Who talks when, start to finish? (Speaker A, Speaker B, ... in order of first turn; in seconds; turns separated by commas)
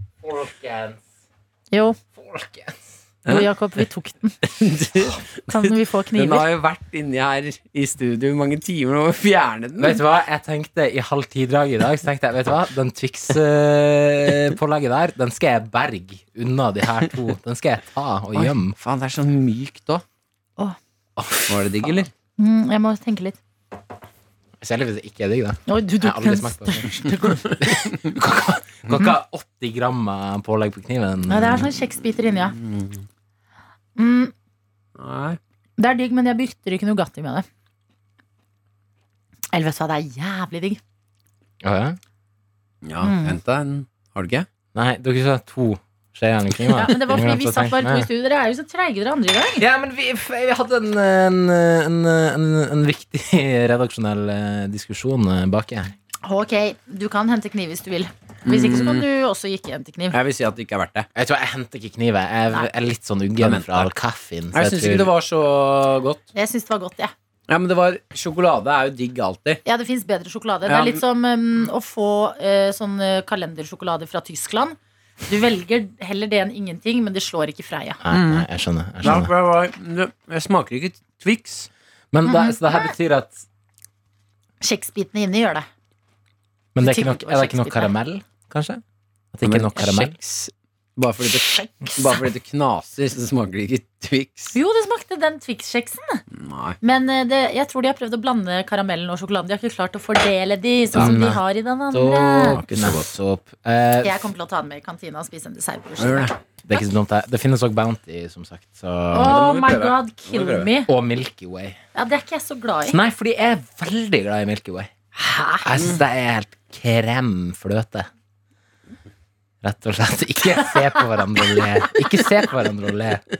Speaker A: 0.2-1.0, Speaker B: 1.7-2.0, Speaker A: 2.2-2.8, Speaker C: 3.2-3.5, Speaker B: 3.3-4.4, Speaker C: 4.5-10.0, Speaker B: 5.5-6.5, Speaker A: 9.8-18.8, Speaker C: 18.3-20.0, Speaker A: 21.2-22.0, Speaker C: 21.5-22.1, Speaker B: 22.4-23.4, Speaker A: 24.6-31.7, Speaker B: 25.7-27.5, Speaker B: 31.3-32.6, Speaker C: 32.6-33.0, Speaker B: 34.0-34.3, Speaker C: 35.0-35.4, Speaker B: 35.8-37.5, Speaker B: 39.5-40.8, Speaker A: 41.6-42.0, Speaker C: 42.8-44.5, Speaker B: 43.0-43.4, Speaker A: 44.7-48.1, Speaker B: 46.7-49.6, Speaker A: 49.6-55.9, Speaker B: 56.2-60.2, Speaker C: 58.5-59.1, Speaker C: 60.1-61.1, Speaker A: 61.1-65.1, Speaker C: 63.4-63.9, Speaker C: 64.5-66.2, Speaker B: 66.3-67.1, Speaker C: 67.5-69.6, Speaker B: 69.7-78.0, Speaker C: 70.7-71.0, Speaker A: 78.0-79.3, Speaker C: 78.1-78.5, Speaker C: 79.0-81.7, Speaker A: 82.1-83.4, Speaker B: 82.2-82.9, Speaker B: 84.6-85.7, Speaker A: 86.8-88.8, Speaker B: 86.8-87.9, Speaker A: 89.3-90.2, Speaker C: 89.4-94.6, Speaker B: 94.5-96.2, Speaker C: 96.3-96.8, Speaker B: 96.8-102.6, Speaker A: 100.9-104.3, Speaker C: 102.4-103.1, Speaker B: 104.0-106.4, Speaker C: 106.0-106.3, Speaker A: 106.7-109.4, Speaker B: 109.1-110.9, Speaker C: 109.2-110.7, Speaker A: 110.9-111.8, Speaker B: 111.9-113.0, Speaker A: 112.9-114.9, Speaker B: 115.2-115.7, Speaker A: 115.6-118.1, Speaker A: 119.6-123.2